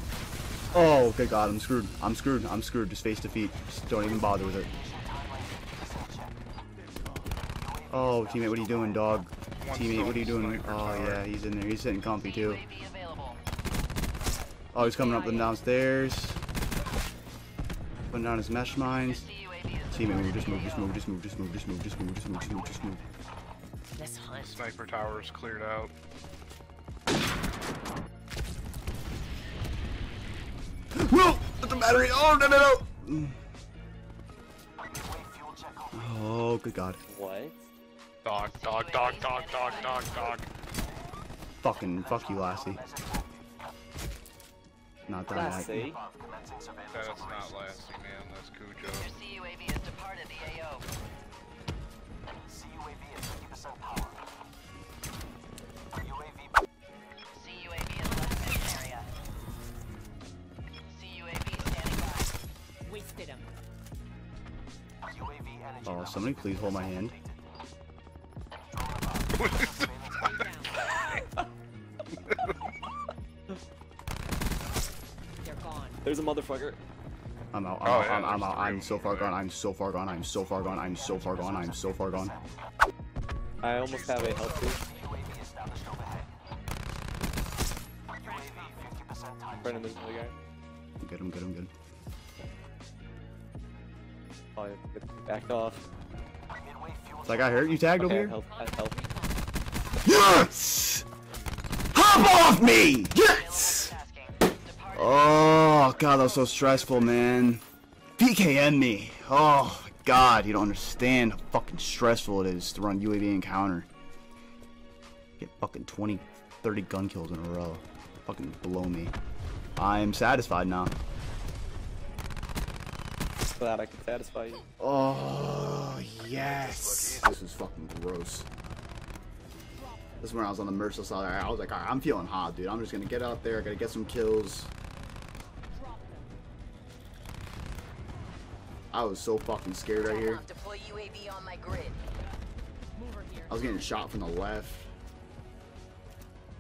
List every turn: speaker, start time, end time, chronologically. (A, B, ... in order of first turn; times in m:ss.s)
0:00.7-0:04.7 A
0:07.9-0:12.6 A
0:09.6-0:11.2 B
0:12.2-0:13.4 C
0:14.7-0:16.4 A
0:14.8-0:15.5 D
0:18.1-0:19.3 A
0:19.1-0:20.1 C
0:19.9-0:23.0 A
0:24.0-0:24.6 D
0:24.4-0:25.9 B
0:31.0-0:33.4 A
0:35.9-0:37.0 A
0:37.1-0:37.6 E
0:38.2-0:40.5 B
0:38.9-0:40.4 C
0:41.6-0:42.8 A
0:45.1-0:46.0 A
0:45.3-0:46.0 E
0:46.8-0:49.1 B
0:49.0-0:50.8 C
0:57.3-0:59.0 C
0:58.1-0:58.8 D
1:00.9-1:02.3 C
1:02.8-1:03.5 D
1:05.8-1:07.2 A
1:09.4-1:10.4 B
1:10.1-1:10.9 D
1:15.4-1:16.0 D
1:16.0-1:16.8 E
1:17.5-1:22.4 A
1:17.8-1:19.4 B
1:23.6-1:24.9 E
1:28.2-1:29.1 D
1:29.6-1:30.4 E
1:31.0-1:31.7 A
1:34.6-1:35.8 E
1:37.2-1:38.4 A
1:38.0-1:39.0 E
1:38.4-1:39.4 D
1:40.0-1:41.1 A
1:41.9-1:44.0 A
1:43.2-1:46.2 C
1:44.9-1:47.6 A
1:48.2-1:53.9 A
1:55.4-1:59.2 A
1:59.8-2:01.0 A
2:03.6-2:04.6 E
2:04.8-2:08.5 A
2:09.7-2:10.2 D
2:10.2-2:14.7 A
2:15.7-2:16.3 D
2:18.9-2:20.4 A
2:20.0-2:22.0 C
2:23.0-2:23.7 D
2:23.5-2:24.9 A